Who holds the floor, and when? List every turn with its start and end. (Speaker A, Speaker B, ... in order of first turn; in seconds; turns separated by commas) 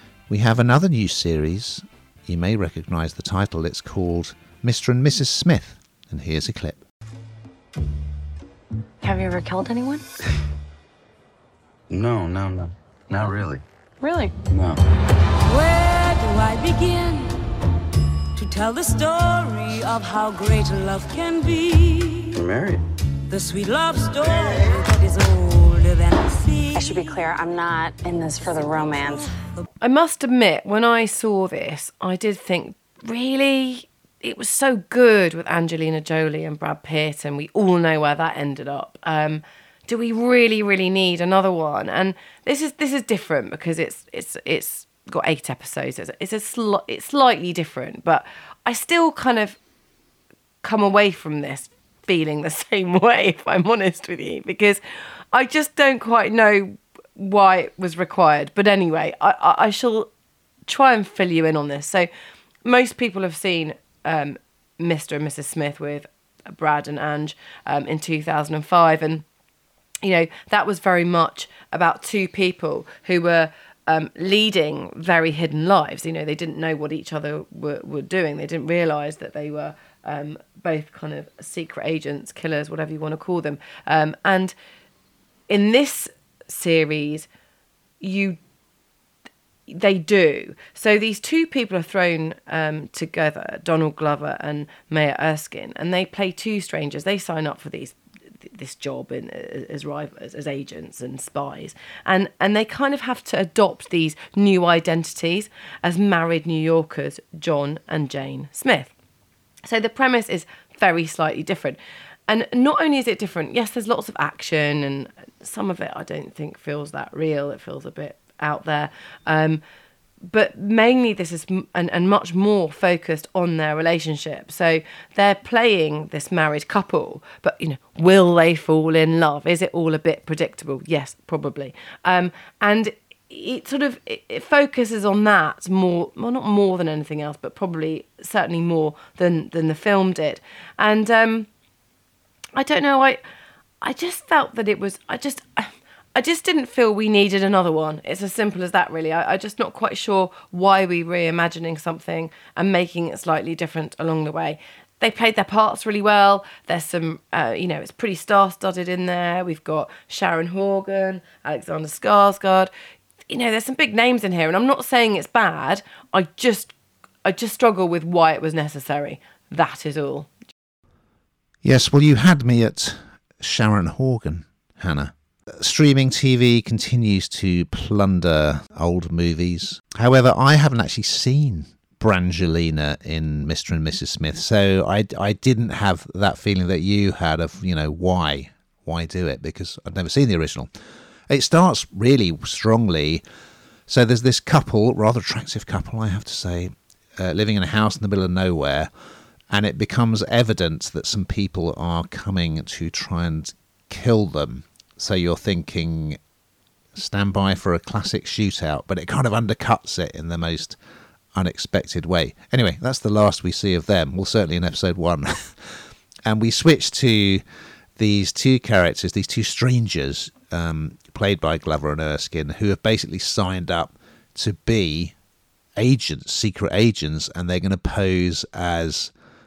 Speaker A: 0.3-6.8, Speaker B: 9.0-10.0, Speaker C: 11.9-13.6, Speaker B: 14.0-14.3, Speaker C: 14.5-14.8, Speaker D: 15.5-17.3, Speaker D: 18.3-22.4, Speaker C: 22.3-22.8, Speaker D: 23.3-27.0, Speaker B: 26.7-29.3, Speaker E: 29.8-49.6, Speaker E: 50.6-54.8, Speaker E: 55.3-60.1, Speaker E: 60.7-62.1, Speaker E: 62.6-69.2, Speaker E: 70.0-84.5, Speaker E: 85.5-87.3, Speaker E: 88.0-88.4, Speaker E: 89.7-108.9, Speaker E: 109.6-119.6, Speaker E: 120.2-141.5, Speaker E: 142.6-143.2, Speaker E: 143.8-162.7, Speaker E: 163.3-166.7, Speaker E: 167.2-170.3, Speaker A: 171.6-190.7, Speaker A: 191.3-193.2, Speaker A: 193.9-198.9, Speaker A: 199.5-206.2, Speaker A: 206.9-210.8, Speaker A: 211.3-217.4, Speaker A: 218.0-225.1, Speaker A: 225.8-229.1